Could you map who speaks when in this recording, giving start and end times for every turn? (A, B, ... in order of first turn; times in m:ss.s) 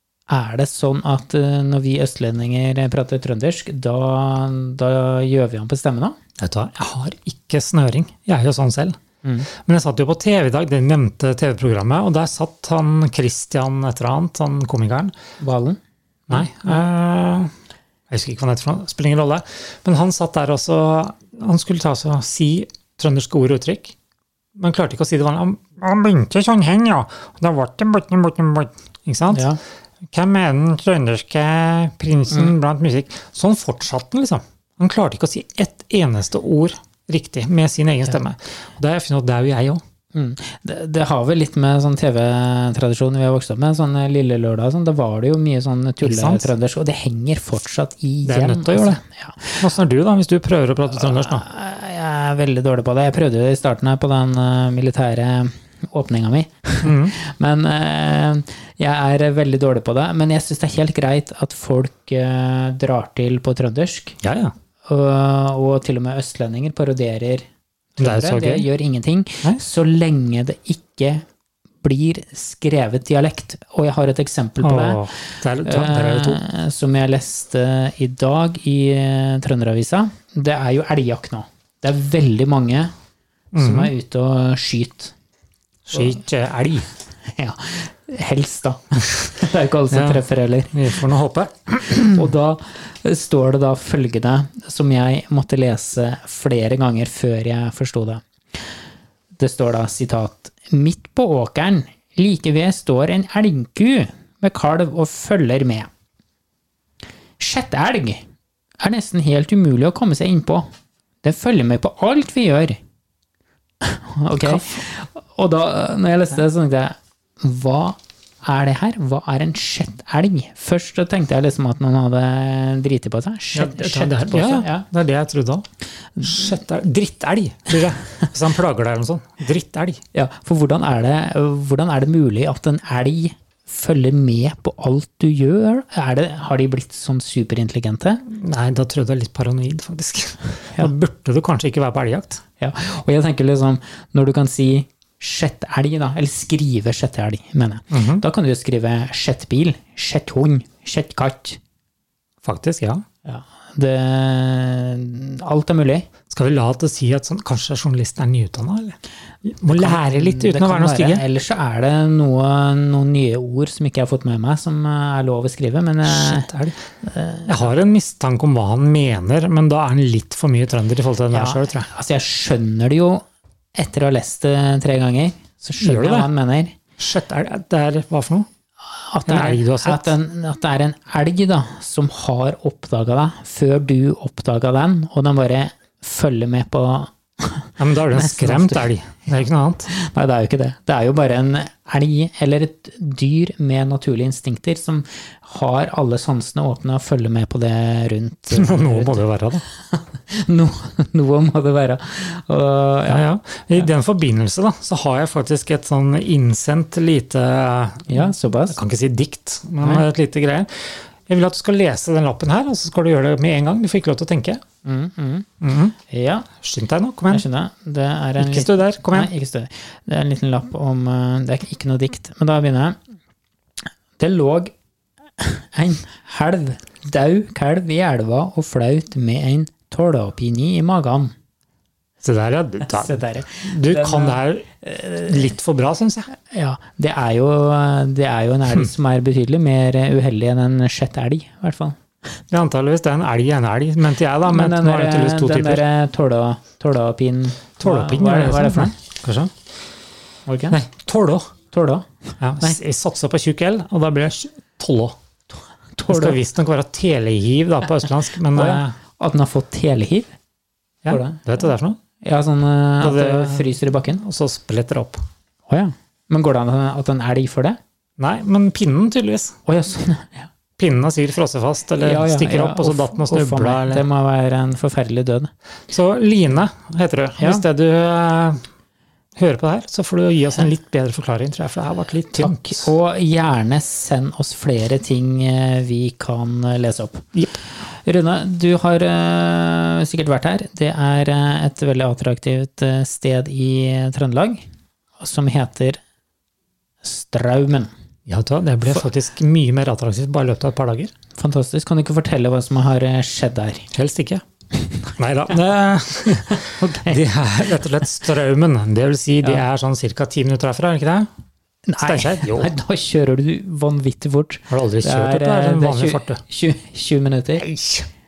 0:00.3-0:06.2 A
0:06.4-0:09.0 B
0:09.2-0:09.5 A
0:09.5-0:15.1 B
0:15.4-0:16.8 A
0:16.3-0:17.5 B
0:18.1-0:23.9 B
0:24.6-0:29.5 B
0:29.3-0:29.6 A
0:30.1-0:39.8 B
0:40.1-0:49.7 A
0:46.0-0:46.5 B
0:48.2-0:49.0 B
0:49.6-0:51.4 B
0:51.0-1:04.2 A
0:56.8-0:57.1 B
1:04.2-1:04.5 B
1:04.9-1:11.2 A
1:08.0-1:08.7 B
1:11.8-1:22.9 A
1:14.6-1:16.4 B
1:23.5-1:23.9 B
1:23.5-1:25.1 A
1:25.9-1:26.9 B
1:27.3-1:31.0 A
1:29.9-1:32.3 B
1:32.0-1:38.6 A
1:39.4-1:45.9 A
1:47.4-1:48.2 A
1:48.8-1:50.7 A
1:51.2-1:52.8 A
1:53.8-2:04.9 A
1:54.4-1:54.8 B
2:03.5-2:05.6 B
2:06.2-2:06.6 A
2:06.2-2:10.0 B
2:10.1-2:18.2 A
2:18.2-2:22.4 B
2:22.6-2:31.6 A
2:27.9-2:28.2 B
2:32.4-2:33.0 B
2:33.2-2:36.1 A
2:36.3-2:41.2 B
2:39.7-2:46.5 A
2:46.0-2:46.8 B
2:47.0-2:47.6 A
2:47.4-2:51.9 B
2:51.3-2:53.2 A
2:53.7-2:56.7 A
2:55.8-2:56.3 B
2:57.0-2:58.5 B
2:58.9-3:08.9 A
2:59.3-3:00.1 B
3:07.8-3:09.9 B
3:09.9-3:19.2 A
3:18.5-3:19.6 B
3:19.8-3:23.9 A
3:23.1-3:34.6 B
3:28.1-3:28.8 A
3:34.8-3:35.5 A
3:35.6-3:35.9 B
3:36.1-3:36.5 A
3:36.6-3:37.4 B
3:37.3-3:43.0 A
3:38.4-3:39.3 B
3:44.2-3:44.7 A
3:45.4-3:51.3 A
3:52.2-3:56.3 B
3:52.8-3:55.5 A
3:56.3-4:02.0 A
4:02.5-4:05.8 B
4:04.4-4:08.9 A
4:07.8-4:09.5 B
4:10.5-4:10.8 A
4:10.7-4:11.5 B
4:11.7-4:12.8 A
4:12.4-4:15.2 B
4:16.0-4:16.4 A
4:16.1-4:18.9 B
4:18.5-4:20.3 A
4:21.0-4:22.0 B
4:21.1-4:21.4 A
4:22.2-4:24.2 A
4:23.0-4:25.2 B
4:25.7-4:27.8 A
4:28.2-4:29.6 B
4:29.6-4:30.5 A
4:30.8-4:34.0 B
4:32.0-4:35.5 A
4:35.9-4:38.6 B
4:37.4-4:37.6 A
4:39.4-4:42.9 B
4:42.4-4:47.3 A
4:48.0-4:54.6 A
4:55.2-4:56.0 A
4:57.0-4:57.9 A
4:58.3-5:01.1 B
5:01.4-5:03.9 A
5:03.9-5:04.4 B
5:05.2-5:11.3 B
5:06.4-5:07.2 A
5:11.9-5:17.7 A
5:12.0-5:12.7 B
5:14.7-5:16.4 B
5:17.6-5:18.1 B